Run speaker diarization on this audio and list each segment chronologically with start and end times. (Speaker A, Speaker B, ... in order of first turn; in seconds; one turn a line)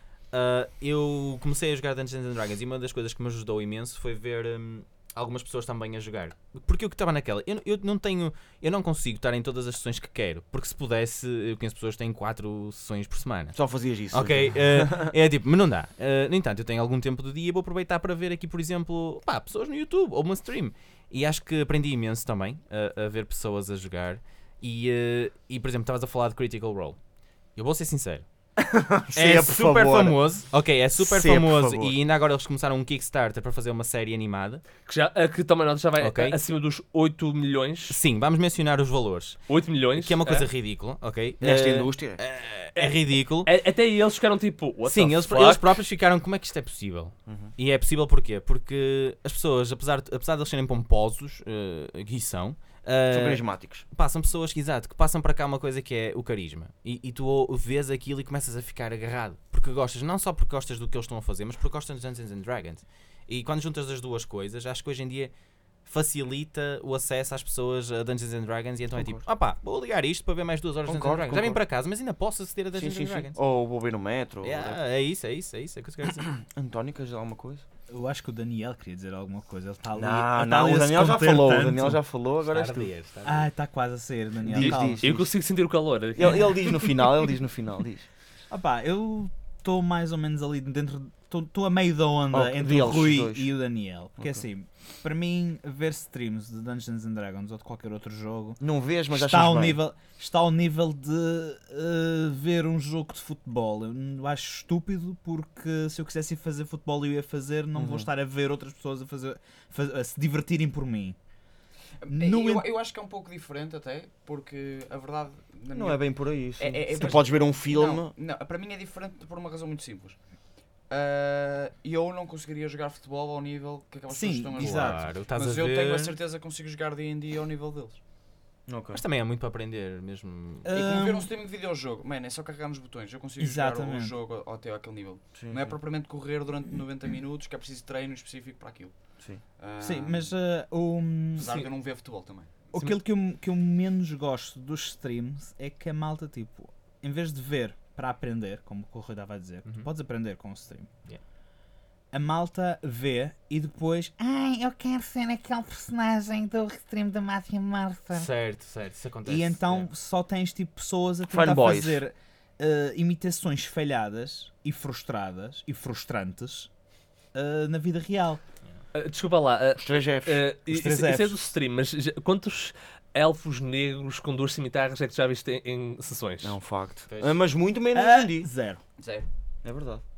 Speaker A: 0.3-13.6
Speaker B: 13.5-15.2
Speaker A: 14.1-27.0
Speaker A: 27.6-28.3
Speaker B: 28.6-30.2
Speaker A: 29.1-34.6
Speaker B: 30.9-32.0
Speaker C: 34.9-38.0
Speaker A: 36.0-36.4
Speaker A: 37.9-39.4
Speaker C: 39.5-40.5
Speaker A: 40.0-43.5
Speaker B: 41.4-42.2
Speaker C: 42.8-45.7
Speaker A: 44.9-65.3
Speaker B: 47.3-47.5
Speaker B: 53.1-53.9
Speaker A: 65.8-73.4
Speaker B: 68.9-69.3
Speaker B: 70.9-71.6
Speaker B: 72.8-74.8
Speaker A: 74.4-76.3
Speaker B: 76.4-77.7
Speaker D: 77.9-82.0
Speaker B: 80.0-82.9
Speaker A: 82.5-83.5
Speaker D: 83.2-85.0
Speaker B: 84.4-85.3
Speaker C: 84.5-86.7
Speaker B: 86.2-88.1
Speaker D: 88.5-98.6
Speaker B: 92.3-93.5
Speaker B: 94.2-94.5
Speaker B: 98.6-99.8
Speaker D: 99.1-111.2
Speaker B: 107.8-108.1
Speaker E: 112.0-120.2
Speaker D: 112.1-112.7
Speaker B: 115.7-118.1
Speaker E: 120.9-128.0
Speaker D: 124.1-125.1
Speaker A: 124.6-126.2
Speaker B: 128.7-129.0
Speaker A: 128.9-130.7
Speaker D: 130.7-131.3
Speaker E: 130.7-140.3
Speaker D: 133.4-134.1
Speaker B: 135.3-135.7
Speaker D: 139.8-141.6
Speaker E: 141.4-142.9
Speaker D: 142.7-150.9
Speaker D: 152.1-158.3
Speaker A: 158.1-159.9
Speaker D: 159.2-166.7
Speaker B: 161.3-162.0
Speaker D: 167.3-168.4
Speaker C: 168.9-176.6
Speaker B: 169.8-170.4
Speaker D: 170.7-171.4
Speaker B: 176.4-178.5
Speaker A: 177.1-177.4
Speaker D: 177.9-178.8
Speaker E: 179.0-179.3
Speaker B: 179.6-180.0